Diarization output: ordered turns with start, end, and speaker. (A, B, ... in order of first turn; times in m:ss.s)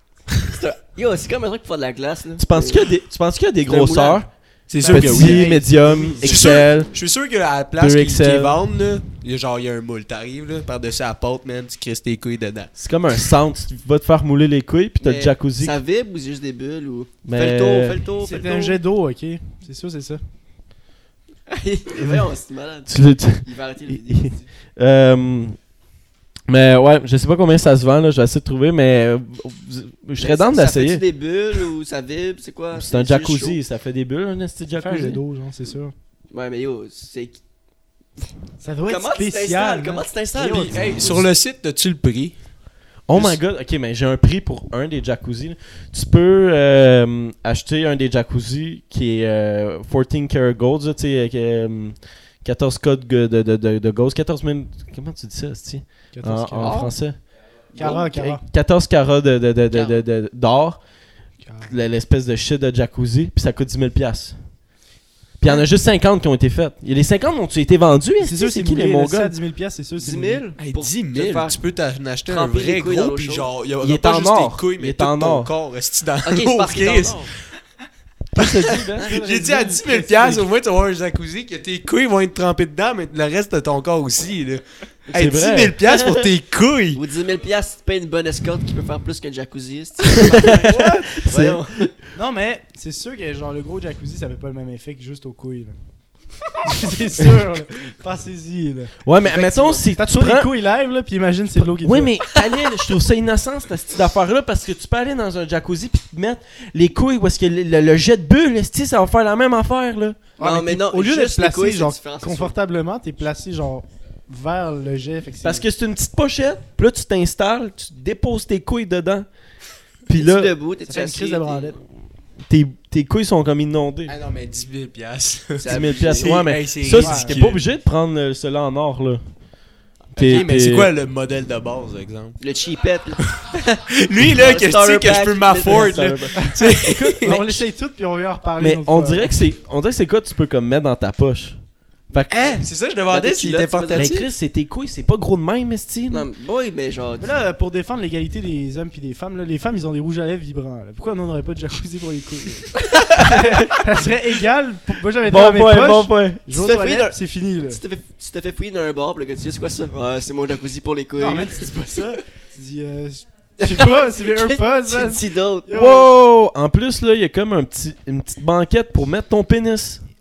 0:00.5-0:02.9 A
0:02.4-0:06.9 B
0:03.6-0:04.2 A
0:04.7-0:05.5 C
0:04.8-0:06.8 A
0:06.2-0:12.7 C
0:07.8-0:08.6 B
0:12.8-0:15.8 B
0:15.0-0:18.8 A
0:17.2-0:18.0 B
0:18.2-0:20.2 D
0:21.5-0:24.5 A
0:22.9-0:25.6 B
0:26.5-0:31.0 B
0:30.2-0:33.6 A
0:32.7-0:35.2 B
0:34.7-0:35.9 D
0:36.3-0:37.4 A
0:38.6-0:41.2 D
0:38.8-0:40.9 A
0:40.5-0:42.3 C
0:43.1-0:57.2 B
0:56.1-0:56.9 D
0:57.7-0:58.4 D
0:57.7-1:00.8 B
0:57.8-0:58.0 A
0:59.7-1:00.0 A
1:01.4-1:01.7 D
1:01.6-1:04.4 B
1:05.4-1:09.4 B
1:08.2-1:10.4 D
1:10.0-1:11.6 A
1:10.6-1:17.4 C
1:12.3-1:13.5 A
1:13.8-1:15.5 B
1:16.2-1:17.3 A
1:18.3-1:19.2 B
1:18.4-1:27.0 C
1:19.0-1:20.4 D
1:25.1-1:26.0 B
1:26.9-1:31.9 A
1:30.2-1:31.6 B
1:30.3-1:31.1 D
1:32.1-1:35.8 D
1:36.6-1:39.0 D
1:39.0-1:40.5 B
1:39.3-1:39.8 A
1:39.6-1:42.1 D
1:41.5-1:50.2 B
1:50.4-1:55.6 D
1:50.4-1:52.5 A
1:55.4-1:59.3 B
2:00.1-2:00.5 B
2:00.1-2:01.8 A
2:00.9-2:01.8 D
2:02.4-2:04.2 B
2:04.1-2:07.6 C
2:05.6-2:06.4 A
2:05.6-2:09.2 B
2:07.0-2:07.4 D
2:10.1-2:10.9 B
2:10.2-2:12.4 C
2:12.4-2:13.6 A
2:13.4-2:17.4 C
2:14.2-2:16.2 A
2:15.6-2:16.5 B
2:16.4-2:19.4 D
2:17.2-2:17.6 B
2:18.6-2:21.6 B
2:22.1-2:22.6 B
2:22.3-2:24.2 A
2:22.6-2:24.2 C
2:23.9-2:26.3 B
2:26.1-2:27.3 A
2:27.2-2:37.8 D
2:33.3-2:33.6 B
2:35.2-2:36.4 B
2:36.5-2:41.6 A
2:41.2-2:46.1 D
2:43.6-2:46.0 A
2:45.7-2:50.0 B